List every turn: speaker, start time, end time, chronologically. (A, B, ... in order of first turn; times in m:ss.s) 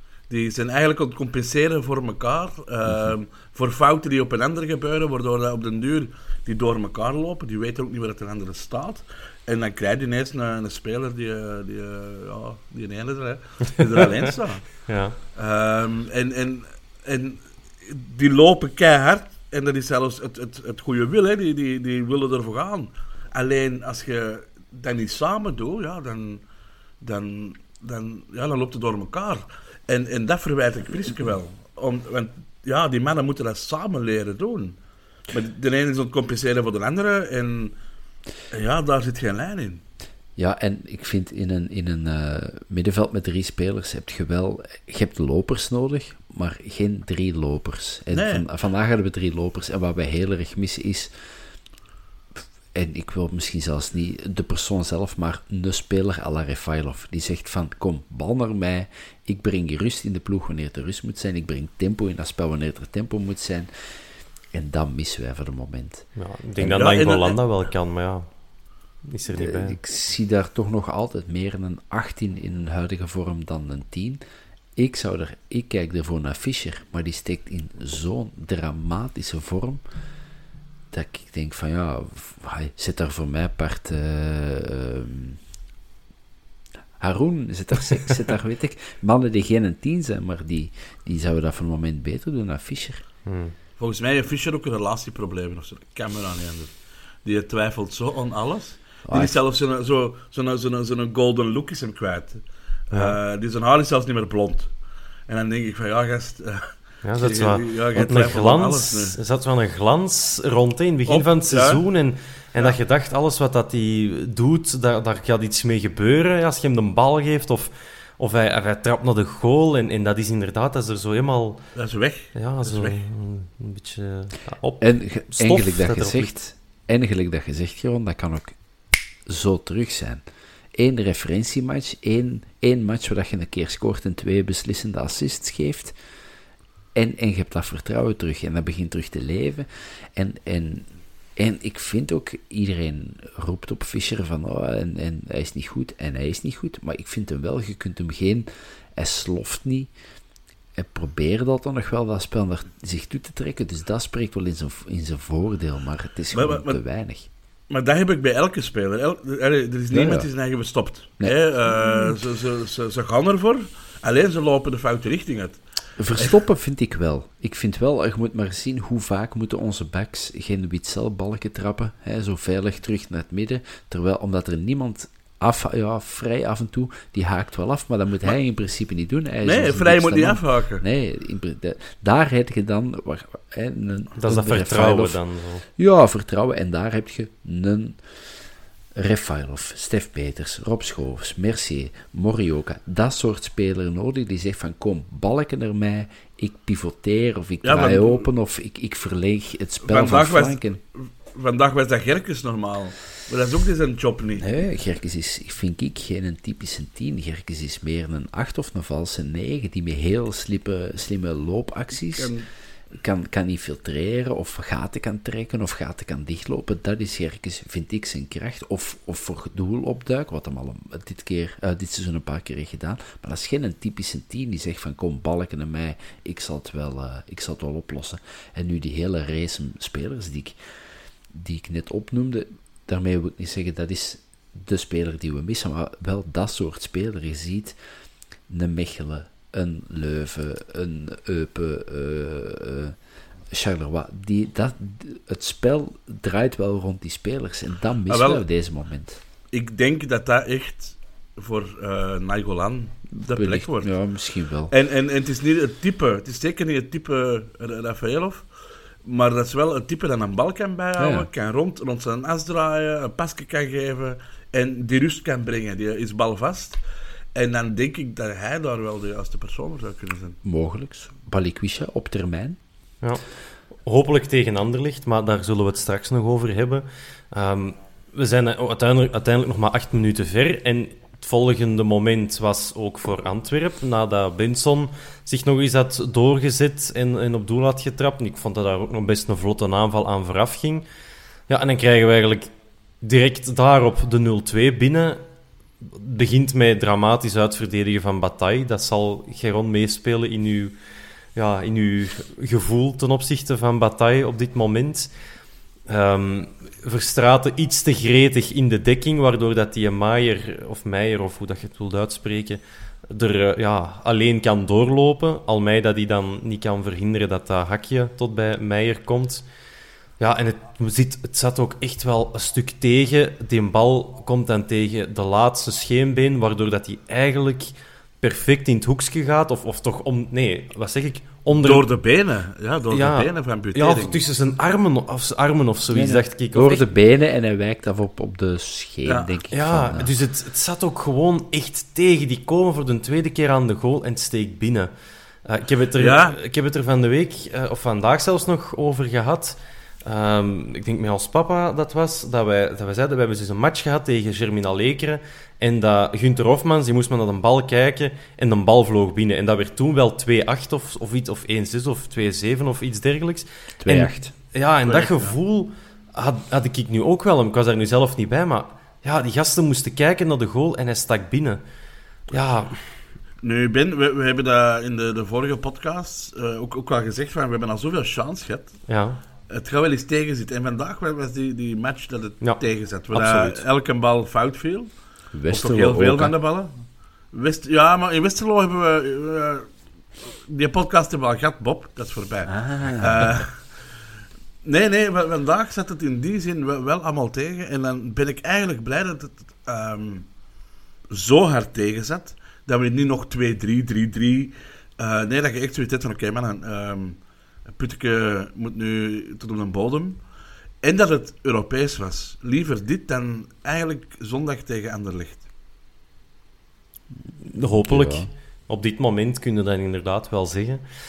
0:00.3-0:14.8 A
0:14.9-0:15.2 B
0:15.4-0:26.4 A
0:27.0-0:34.8 A
0:35.3-0:37.8 A
0:38.5-0:39.8 A
0:40.4-0:51.1 C
0:48.1-0:48.4 A
0:52.7-1:03.7 C
1:04.5-1:06.1 C
1:06.2-1:08.3 B
1:06.6-1:07.4 A
1:09.1-1:09.8 B
1:09.3-1:14.2 C
1:14.8-1:19.8 C
1:20.9-1:25.4 C
1:27.0-1:33.0 C
1:33.3-1:33.5 B
1:33.8-1:44.7 A
1:39.1-1:39.4 C
1:45.3-1:49.2 A
1:47.0-2:01.6 B
1:51.1-1:51.8 A
2:01.8-2:03.0 A
2:02.4-2:06.3 B
2:04.8-2:08.6 C
2:09.3-2:16.0 C
2:17.0-2:29.9 C
2:30.8-2:37.3 C
2:36.3-2:36.8 A
2:37.7-2:45.6 A
2:39.9-2:40.3 C
2:41.2-2:42.0 C
2:46.0-3:05.2 C
2:59.4-3:00.8 A
3:04.2-3:05.6 B
3:05.8-3:08.0 C
3:09.0-3:20.8 C
3:17.6-3:18.3 A
3:19.9-3:24.5 A
3:24.4-3:32.3 C
3:32.2-3:32.5 A
3:33.0-3:50.6 C
3:51.3-3:57.8 C
3:58.5-4:03.0 C
4:03.5-4:09.2 C
4:08.1-4:08.4 A
4:09.5-4:13.9 A
4:13.2-4:14.7 C
4:14.7-4:18.4 A
4:19.0-4:26.8 A
4:21.0-4:21.3 C
4:27.4-4:30.4 A
4:30.4-4:32.6 C
4:33.8-4:50.8 B
4:51.5-4:52.5 B
4:53.0-4:55.2 B
4:55.8-5:00.7 B
5:01.4-5:05.1 B
5:05.9-5:19.4 B
5:20.2-5:31.9 B
5:31.5-5:34.2 A
5:32.9-5:36.9 B
5:35.9-5:40.1 C
5:39.1-5:39.3 A
5:39.5-5:44.9 B
5:45.4-6:11.6 B
5:46.0-5:46.4 A
6:03.8-6:04.3 C
6:04.8-6:05.4 A
6:12.3-6:12.8 B
6:13.4-6:18.8 A
6:18.9-6:19.2 B
6:19.5-6:26.7 A
6:22.4-6:23.6 B
6:25.3-6:26.3 C
6:27.3-6:29.7 A
6:30.3-6:33.6 A
6:32.5-6:33.4 C
6:34.6-6:40.3 A
6:41.1-6:47.2 A
6:47.7-6:50.2 A
6:50.8-6:55.4 A
6:57.5-7:00.8 B
6:57.8-6:58.3 C